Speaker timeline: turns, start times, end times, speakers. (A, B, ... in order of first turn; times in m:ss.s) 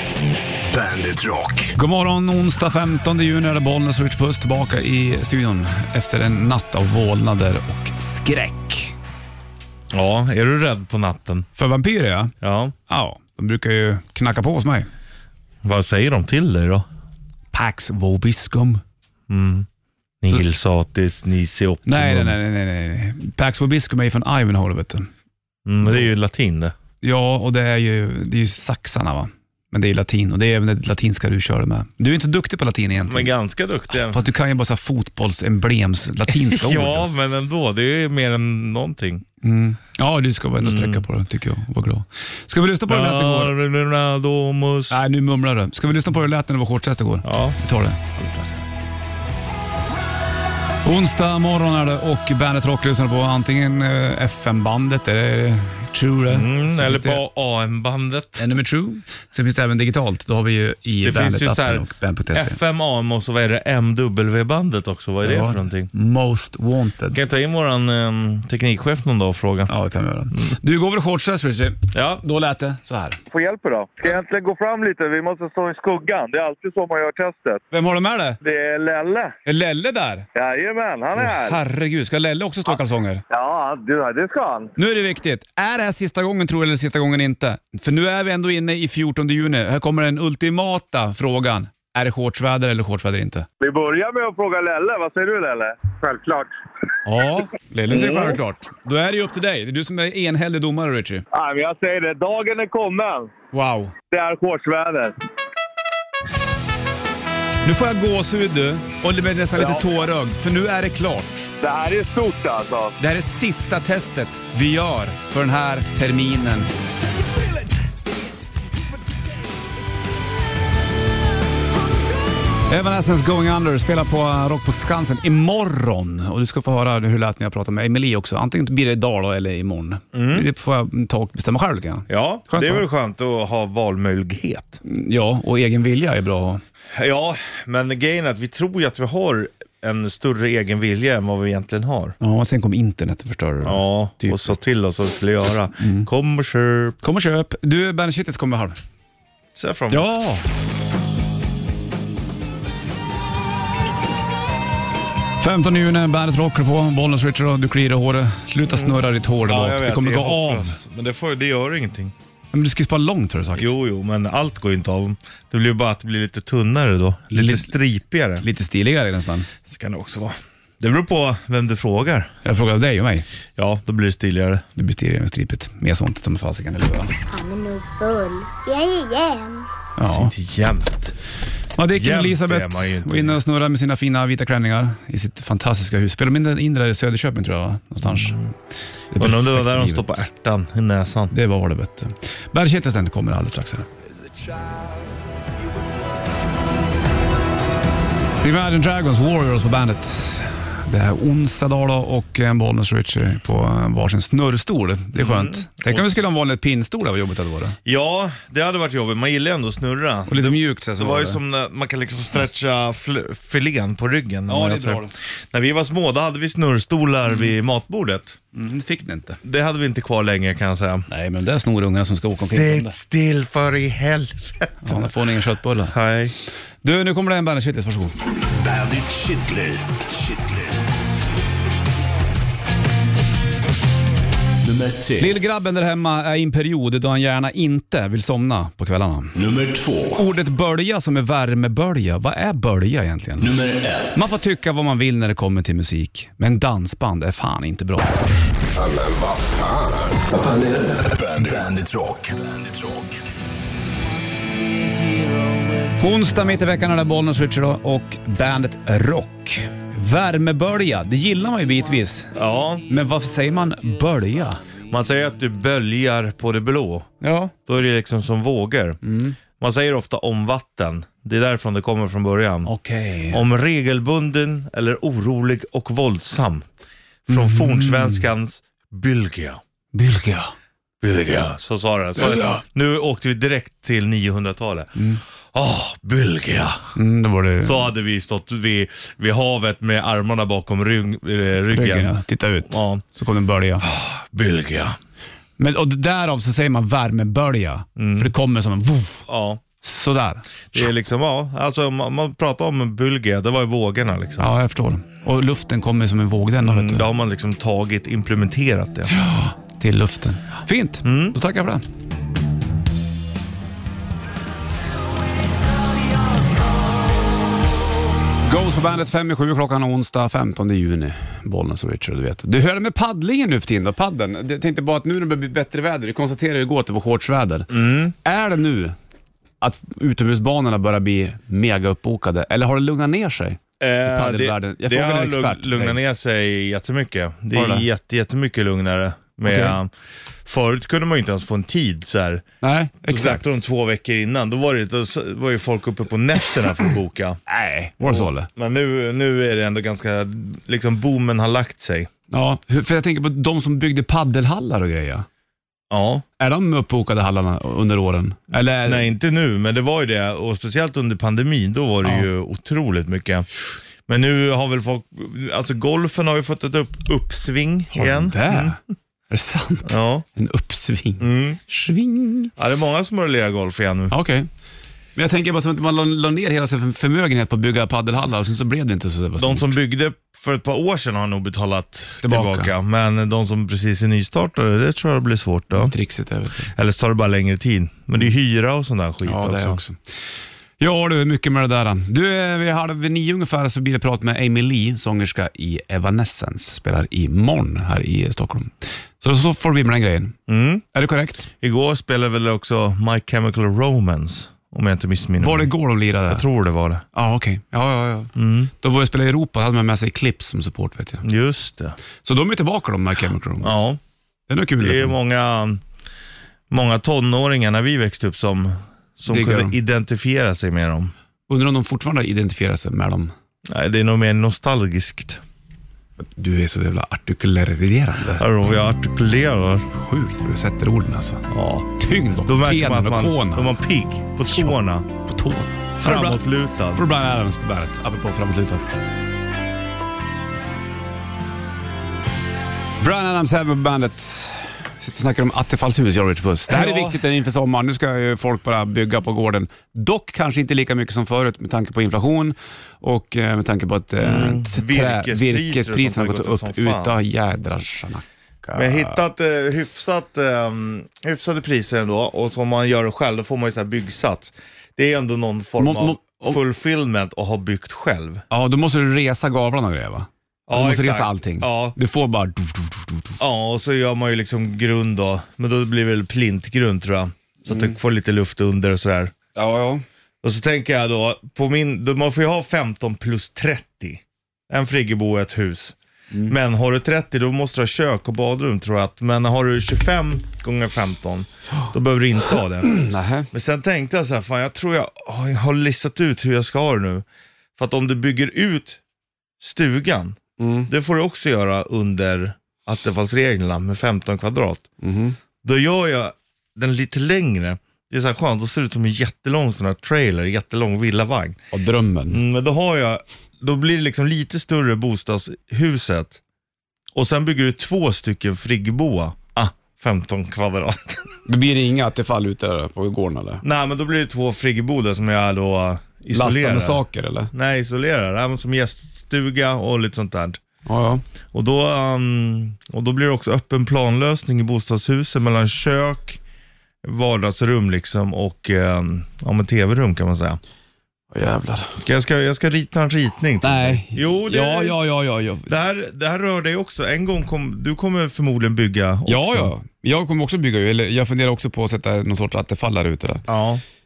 0:00.7-0:01.7 A
0:01.7-0:08.9 B
0:09.9-0:11.5 C
0:11.6-0:12.3 B
0:12.4-0:12.7 C
0:12.9-0:14.9 B
0:15.6-0:16.9 C
0:17.5-0:18.8 B
0:19.3-0:19.7 C
0:20.2-0:22.4 C
0:21.8-0:25.1 B
0:25.6-0:26.7 C
0:27.0-0:33.3 B
0:33.0-0:34.2 C
0:33.9-0:37.1 B
0:36.3-0:39.2 C
0:39.4-0:43.5 B
0:40.6-0:41.0 C
0:42.9-0:45.0 C
0:44.9-0:48.6 B
0:47.2-0:47.6 C
0:50.8-0:57.2 B
0:56.3-0:58.4 C
0:58.4-1:02.6 B
1:01.0-1:05.9 C
1:05.2-1:07.2 B
1:07.1-1:09.7 C
1:09.7-1:13.2 B
1:11.9-1:12.2 C
1:13.3-1:17.6 D
1:17.7-1:18.4 B
1:18.4-1:19.3 D
1:19.4-1:20.2 B
1:20.3-1:21.6 D
1:21.2-1:23.2 B
1:23.3-1:24.7 D
1:24.8-1:33.4 B
1:33.6-1:36.5 D
1:37.0-1:41.2 B
1:37.9-1:38.4 D
1:41.3-1:43.3 D
1:43.5-1:43.9 B
1:44.1-1:45.2 D
1:47.6-1:51.5 B
1:49.5-1:49.9 D
1:51.6-1:53.0 D
1:53.0-1:56.7 B
2:02.7-2:12.8 B
2:10.1-2:10.5 C
2:12.1-2:14.8 C
2:14.8-2:16.6 B
2:16.9-2:22.2 C
2:22.2-2:24.6 B
2:23.6-2:27.0 C
2:25.8-2:26.1 B
2:27.0-2:28.8 B
2:29.5-2:30.3 C
2:29.9-2:30.4 B
2:35.4-2:40.8 B
2:38.7-2:42.1 C
2:42.5-2:43.7 B
2:43.6-2:48.4 C
2:47.3-2:47.7 B
2:48.4-2:49.5 B
2:49.6-2:52.3 C
2:52.4-2:53.3 B
2:53.6-2:54.6 C
2:54.8-2:57.2 B
2:57.3-2:59.7 E
3:00.0-3:00.3 B
3:00.0-3:01.2 C
3:01.8-3:08.4 B
3:01.9-3:03.4 C
3:08.0-3:08.4 C
3:09.1-3:10.2 B
3:09.2-3:11.3 C
3:11.3-3:13.9 B
3:18.4-3:27.8 B
3:25.2-3:26.2 C
3:27.8-3:38.4 C
3:30.3-3:31.4 B
3:34.5-3:35.1 B
3:38.5-3:39.4 B
3:39.4-3:41.0 C
3:41.1-3:43.0 B
3:42.4-3:45.0 C
3:44.8-3:46.0 B
3:45.9-3:46.3 C
3:46.8-3:48.1 B
3:48.4-3:50.8 A
3:54.6-3:55.3 A
3:55.2-3:59.3 B
3:59.4-4:00.2 A
4:00.1-4:03.5 B
4:03.4-4:04.2 A
4:04.1-4:08.1 B
4:08.7-4:13.1 A
4:16.0-4:22.3 B
4:22.3-4:22.8 C
4:22.9-4:24.6 B
4:24.9-4:27.1 C
4:27.2-4:27.5 B
4:27.6-4:29.0 C
4:29.0-4:29.4 B
4:29.6-4:32.7 C
4:32.6-4:33.4 B
4:33.3-4:36.7 C
4:37.3-4:39.6 C
4:37.3-4:38.3 B
4:39.9-4:40.5 B
4:41.0-4:44.9 C
4:42.2-4:42.6 B
4:45.0-4:45.2 B
4:45.5-4:46.9 C
4:47.0-4:47.9 B
4:47.6-4:52.1 C
4:51.7-4:53.9 B
4:52.7-4:53.0 C
4:53.8-4:55.0 C
4:55.6-4:59.3 B
4:58.0-4:58.3 C
4:59.3-4:59.6 C
4:59.8-5:00.8 B
5:00.7-5:04.5 C
5:04.4-5:07.1 B
5:06.6-5:09.1 C
5:09.1-5:11.8 B
5:11.0-5:11.4 C
5:18.4-5:28.9 B
5:27.7-5:28.1 C
5:29.6-5:36.0 B
5:33.8-5:39.9 C
5:37.5-5:37.9 B
5:39.4-5:39.8 B
5:40.4-5:42.4 C
5:42.6-5:43.4 B
5:43.1-5:47.4 C
5:47.5-5:48.5 B
5:48.0-5:52.1 C
5:52.3-5:55.3 B
5:55.9-5:56.2 C
5:56.4-5:59.1 B
5:58.8-6:03.5 C
6:04.0-6:08.8 C
6:07.9-6:08.8 B
6:09.3-6:12.5 B
6:09.8-6:10.2 C
6:11.2-6:11.6 C
6:12.6-6:14.1 C
6:14.1-6:14.5 B
6:15.2-6:19.8 B
6:19.4-6:25.9 C
6:22.2-6:22.7 B
6:25.7-6:26.7 B
6:26.7-6:29.8 C
6:29.2-6:30.0 B
6:30.8-6:40.4 B
6:40.5-6:40.8 C
6:40.9-6:41.5 B
6:41.6-6:45.7 C
6:45.4-6:46.4 B
6:46.3-6:47.0 C
6:47.1-6:51.2 B
6:48.4-6:48.7 C
6:51.2-6:52.0 C
6:52.2-6:53.8 B
6:53.6-6:54.0 C
6:54.5-6:55.2 B
6:54.8-6:55.8 C
6:56.7-7:01.1 C
6:59.3-6:59.8 B
7:01.5-7:03.3 B
7:03.7-7:05.4 C
7:06.2-7:08.4 B
7:08.4-7:09.9 C
7:09.9-7:13.8 B
7:11.5-7:15.1 C
7:14.4-7:18.9 B
7:16.0-7:17.0 C
7:23.0-7:39.2 B
7:26.7-7:27.2 C
7:34.2-7:37.1 C
7:38.8-7:48.4 C
7:45.8-7:46.6 B
7:48.5-7:53.4 B
7:50.7-7:52.0 C
7:53.4-7:59.3 C
7:57.7-7:57.9 B
7:59.6-8:00.0 B
8:00.4-8:17.2 C
8:12.8-8:13.5 B
8:17.8-8:19.0 C
8:19.6-8:24.9 C
8:20.6-8:20.9 B
8:25.0-8:25.4 B
8:25.6-8:31.6 C
8:31.7-8:32.4 B
8:32.3-8:36.4 C
8:37.1-8:41.3 C
8:41.4-8:43.6 B
8:43.6-8:47.0 C
8:46.3-8:47.5 B
8:47.5-8:50.6 C
8:50.8-8:51.2 B
8:51.5-8:56.4 C
8:57.0-9:00.6 C
9:01.3-9:02.0 B
9:02.0-9:05.0 C
9:03.6-9:05.7 B
9:05.6-9:09.7 C
9:09.3-9:13.4 B
9:13.5-9:13.8 C